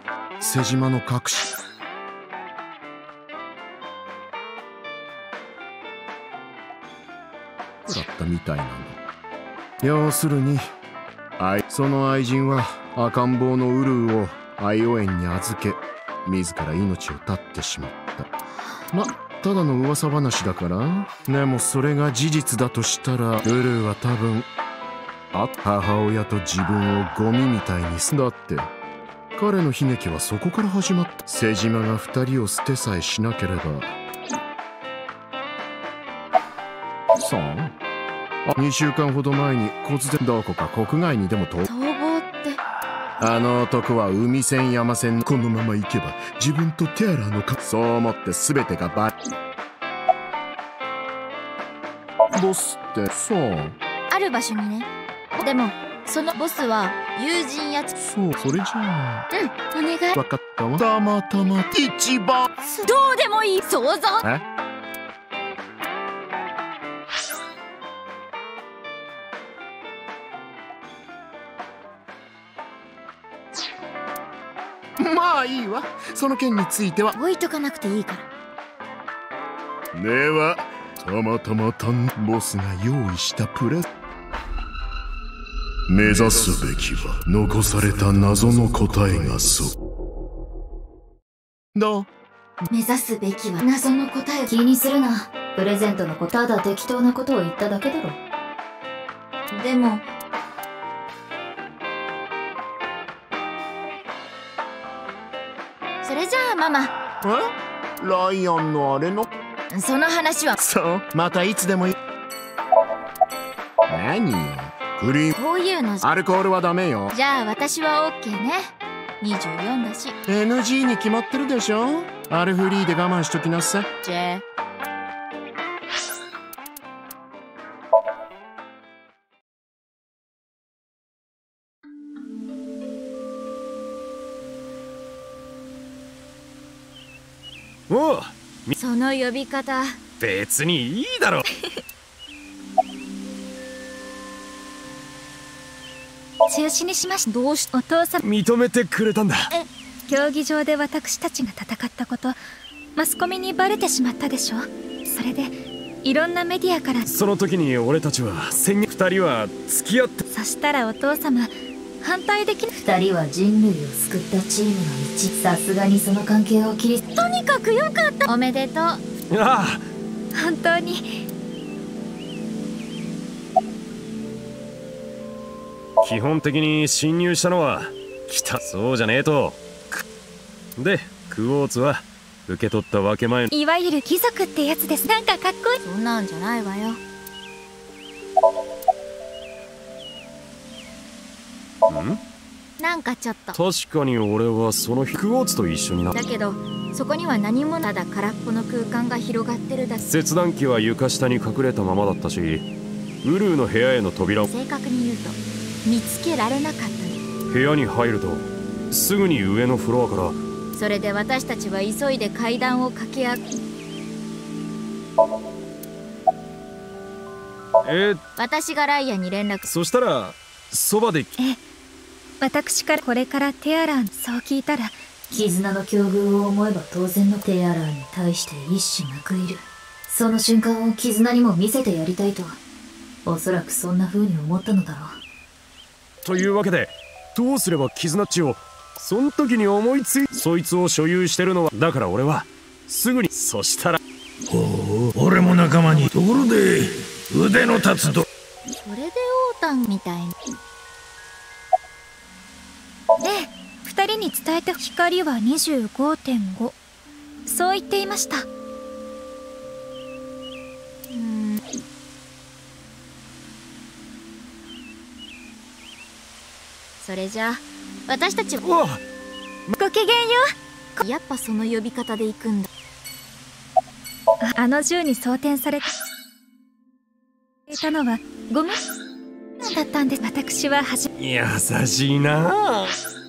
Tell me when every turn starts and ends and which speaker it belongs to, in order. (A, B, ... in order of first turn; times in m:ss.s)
0:00.4-0:01.5 A
0:07.8-0:09.0 A
0:09.8-0:10.7 A
0:11.4-0:18.3 A
0:18.9-0:24.5 A
0:25.3-0:28.7 A
0:29.4-0:33.9 A
0:37.1-0:37.7 A
0:38.4-0:41.6 A
0:41.6-0:42.6 B
0:43.2-0:49.1 A
0:52.3-0:53.8 A
0:54.1-0:57.9 B
0:58.0-0:59.3 A
0:59.3-1:00.2 B
1:00.1-1:02.5 A
1:02.6-1:04.2 B
1:15.0-1:17.1 A
1:17.2-1:18.3 B
1:19.9-1:23.8 A
1:25.9-1:29.7 A
1:31.7-1:32.1 A
1:32.7-1:34.5 B
1:34.5-1:38.2 C
1:39.5-1:40.0 B
1:46.0-1:46.9 B
1:47.2-1:49.3 A
1:49.7-1:50.6 B
1:50.6-1:51.9 A
1:53.9-1:55.3 A
1:55.3-1:56.0 B
1:56.0-1:57.1 A
1:57.1-2:00.2 B
2:00.3-2:03.9 A
2:04.0-2:04.4 B
2:17.9-2:18.8 D
2:18.8-2:20.0 B
2:20.2-2:21.4 D
2:26.5-2:28.2 E
2:27.3-2:27.7 B
2:28.2-2:29.5 D
2:30.1-2:32.4 E
2:33.0-2:37.1 E
2:37.1-2:40.2 D
2:40.3-2:42.7 E
2:42.7-2:47.0 C
2:47.1-2:49.0 B
2:49.3-2:49.8 D
2:50.3-2:51.2 E
2:56.0-3:00.0 D
3:00.8-3:03.5 D
3:03.5-3:05.8 E
3:05.8-3:07.0 B
3:11.8-3:12.2 D
3:12.8-3:13.6 B
3:13.5-3:16.1 D
3:16.1-3:20.1 B
3:20.1-3:22.7 D
3:23.2-3:24.5 D
3:24.5-3:27.2 B
3:27.5-3:30.4 D
3:30.7-3:33.5 B
3:37.8-3:38.2 D
3:38.4-3:39.6 B
3:39.6-3:41.4 D
3:42.4-3:45.0 E
3:45.3-3:52.6 C
3:53.2-3:55.2 C
3:56.2-4:04.0 D
4:05.2-4:06.4 F
4:07.3-4:08.1 F
4:07.8-4:08.1 D
4:08.8-4:10.3 B
4:13.2-4:16.7 E
4:17.4-4:18.5 E
4:21.1-4:21.6 B
4:27.0-4:28.6 B
4:28.6-4:29.0 D
4:29.7-4:30.5 E
4:31.0-4:32.7 B
4:34.5-4:35.9 E
4:37.7-4:38.8 E
4:39.6-4:41.1 E
4:41.2-4:42.9 D